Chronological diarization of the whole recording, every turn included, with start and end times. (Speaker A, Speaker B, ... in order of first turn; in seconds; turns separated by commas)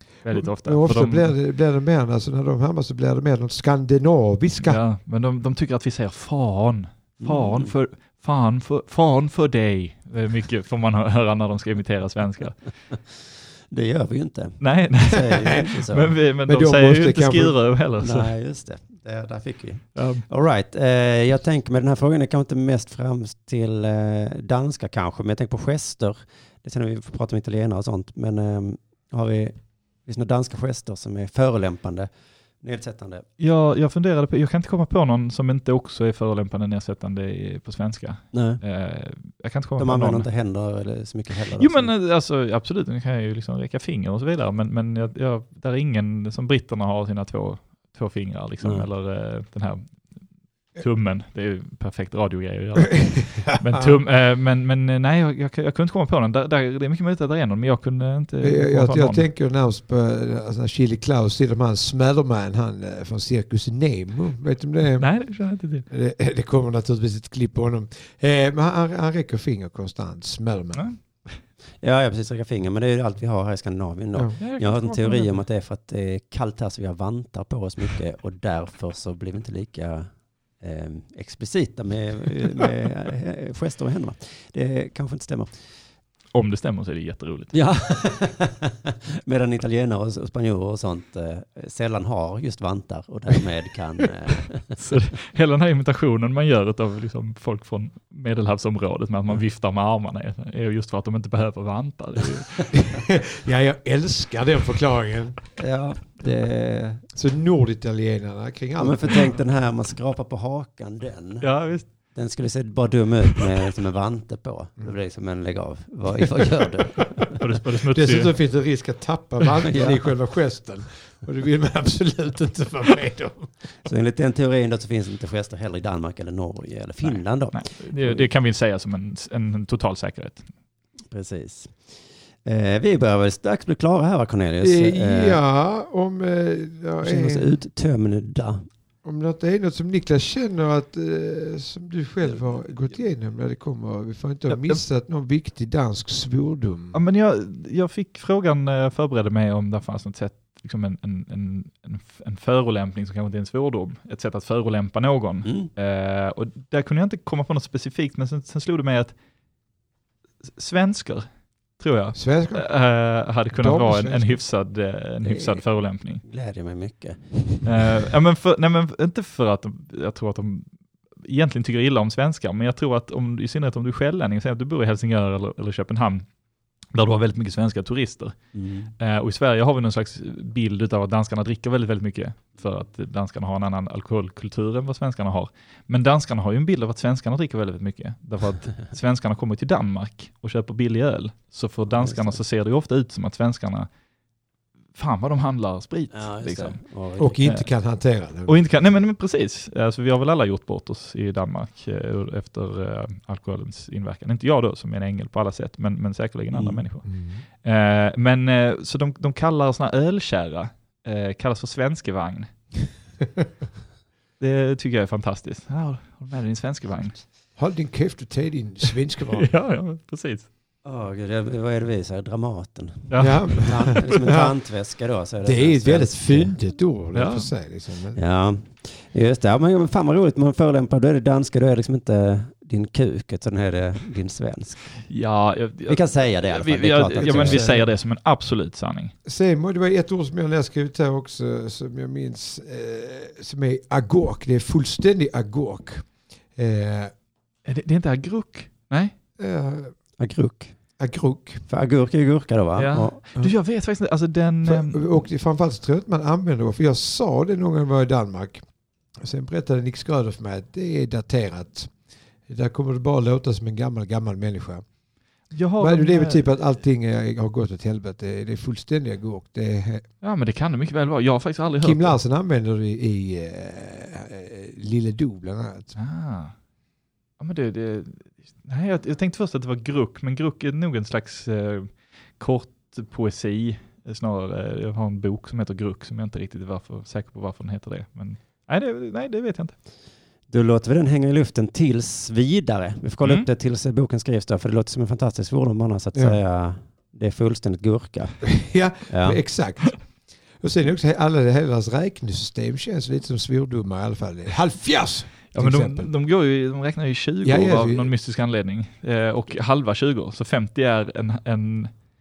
Speaker A: 0.2-1.3, Speaker B: 0.3-4.8, Speaker A: 4.6-12.6, Speaker C: 7.2-7.7, Speaker C: 13.7-16.1, Speaker A: 14.6-18.3, Speaker B: 16.4-17.6, Speaker C: 18.0-32.1, Speaker A: 19.9-20.2, Speaker C: 32.6-33.2, Speaker A: 33.4-40.3, Speaker C: 38.3-38.6, Speaker C: 39.8-41.9, Speaker A: 41.6-49.9, Speaker A: 50.8-59.2, Speaker B: 52.9-53.9, Speaker B: 58.4-65.1, Speaker A: 65.0-65.8, Speaker B: 65.9-70.8, Speaker C: 71.8-85.5, Speaker A: 74.4-75.4, Speaker A: 86.3-87.5, Speaker C: 87.5-94.8, Speaker A: 94.8-102.7, Speaker B: 102.7-105.4, Speaker C: 105.5-107.0, Speaker B: 107.1-109.3, Speaker C: 108.8-111.5, Speaker A: 111.4-111.9, Speaker C: 112.1-117.4, Speaker A: 117.3-118.3, Speaker B: 117.9-123.5, Speaker C: 119.6-120.0, Speaker C: 123.8-128.3, Speaker A: 127.0-130.5, Speaker C: 131.1-131.8, Speaker C: 132.4-135.4, Speaker B: 134.6-137.5, Speaker C: 137.0-138.7, Speaker B: 139.0-146.9, Speaker A: 146.9-159.1, Speaker C: 155.4-155.7, Speaker A: 160.6-161.3, Speaker A: 161.8-166.2, Speaker B: 162.1-162.7, Speaker B: 163.6-164.4, Speaker C: 165.2-165.6, Speaker C: 166.2-167.6, Speaker A: 167.6-170.7, Speaker A: 171.2-176.2, Speaker A: 176.9-178.3, Speaker C: 178.5-178.9, Speaker A: 179.0-193.9, Speaker C: 192.0-192.4, Speaker A: 194.9-196.8, Speaker C: 196.1-197.4, Speaker B: 197.2-198.6, Speaker A: 197.4-197.7, Speaker A: 198.5-207.0, Speaker C: 206.5-206.8, Speaker B: 207.0-207.4, Speaker A: 207.6-212.5, Speaker A: 214.4-217.2, Speaker B: 217.6-219.5, Speaker A: 219.3-220.5, Speaker C: 220.8-226.6, Speaker A: 223.1-223.7, Speaker B: 223.2-224.5, Speaker B: 225.4-228.2, Speaker A: 227.1-227.5, Speaker C: 228.1-234.9, Speaker A: 235.1-239.1, Speaker C: 235.9-237.8, Speaker B: 237.1-237.8, Speaker B: 239.2-247.1, Speaker A: 247.6-249.1, Speaker B: 249.4-249.9, Speaker C: 250.2-250.7, Speaker B: 251.0-251.6, Speaker C: 251.7-253.2, Speaker A: 252.8-255.0, Speaker B: 254.7-258.6, Speaker B: 259.2-261.9, Speaker B: 262.5-264.8, Speaker A: 265.5-266.4, Speaker B: 265.8-270.0, Speaker A: 270.2-272.1, Speaker B: 271.8-275.9, Speaker A: 275.9-276.5, Speaker A: 277.4-289.7, Speaker C: 290.5-298.5, Speaker A: 293.2-293.5, Speaker B: 298.4-300.1, Speaker C: 299.1-299.4, Speaker B: 300.6-306.1, Speaker A: 305.5-311.9, Speaker B: 307.4-308.1